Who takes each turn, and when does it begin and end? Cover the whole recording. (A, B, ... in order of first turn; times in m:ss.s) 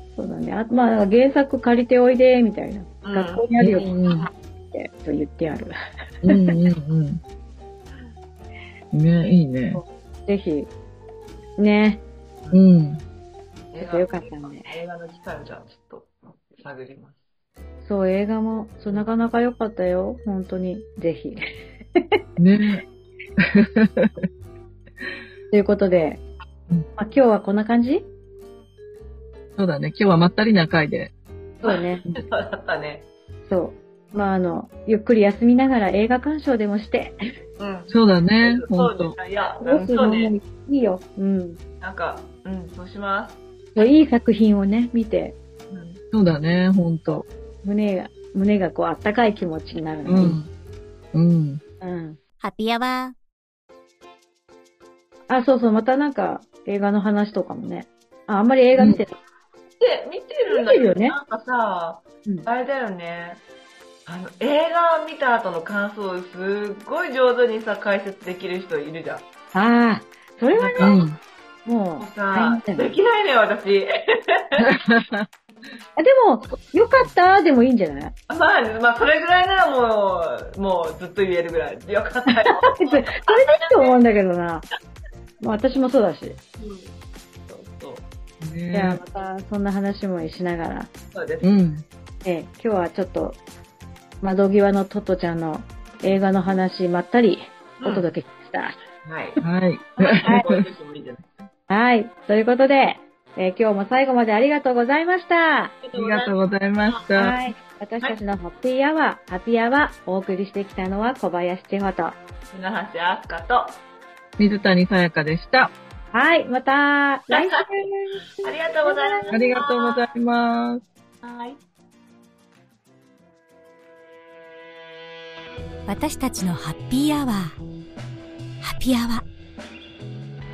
0:00.2-0:04.0 A
0:03.0-0:03.5 B
0:03.6-0:04.3 C
0:04.7-0:05.7 A
0:06.2-0:07.2 C
0:08.9-0:09.8 C
0:09.7-0:10.7 A
0:11.6-0:12.0 A
0:12.5-0:13.0 C
0:13.7-0:17.2 B
0:13.8-0:14.7 A
0:17.8-0:21.4 A
0:22.4-0:22.8 C
0:23.4-0:24.2 C
0:25.5-0:26.2 A
0:27.0-0:28.1 A
0:29.6-0:31.1 C
0:31.6-0:32.1 A
0:31.6-0:33.1 B
0:33.4-0:37.2 A
0:37.6-0:40.3 B
0:37.9-0:39.2 C
0:39.6-0:41.6 A
0:41.8-0:43.4 B
0:43.8-0:45.4 A
0:45.7-0:46.0 B
0:46.1-0:47.3 C
0:47.6-0:50.4 A
0:50.1-0:50.5 C
0:51.1-0:51.6 C
0:51.8-0:52.2 A
0:52.4-0:53.2 D
0:55.3-0:59.1 A
0:59.8-1:03.4 B
1:00.5-1:01.2 A
1:04.1-1:09.3 B
1:09.5-1:11.0 A
1:10.5-1:11.0 B
1:10.8-1:11.2 C
1:11.6-1:13.0 A
1:12.0-1:14.7 B
1:14.6-1:15.3 C
1:16.0-1:18.2 A
1:18.3-1:23.9 B
1:22.6-1:24.6 A
1:25.4-1:26.4 A
1:26.6-1:28.1 B
1:28.4-1:29.0 C
1:28.7-1:30.9 A
1:31.1-1:31.5 B
1:31.4-1:31.8 C
1:32.2-1:33.4 A
1:34.2-1:38.8 A
1:37.8-1:38.1 B
1:39.0-1:39.4 B
1:39.4-1:40.6 C
1:40.0-1:41.4 B
1:41.7-1:45.8 A
1:45.8-1:46.4 B
1:45.9-1:47.4 C
1:47.2-1:52.2 A
1:52.5-1:53.8 B
1:54.4-1:55.7 C
1:56.1-1:59.3 A
1:57.3-1:57.6 B
1:58.4-2:00.1 B
1:59.3-2:00.8 C
2:01.2-2:01.6 B
2:05.9-2:07.6 D
2:08.6-2:09.2 D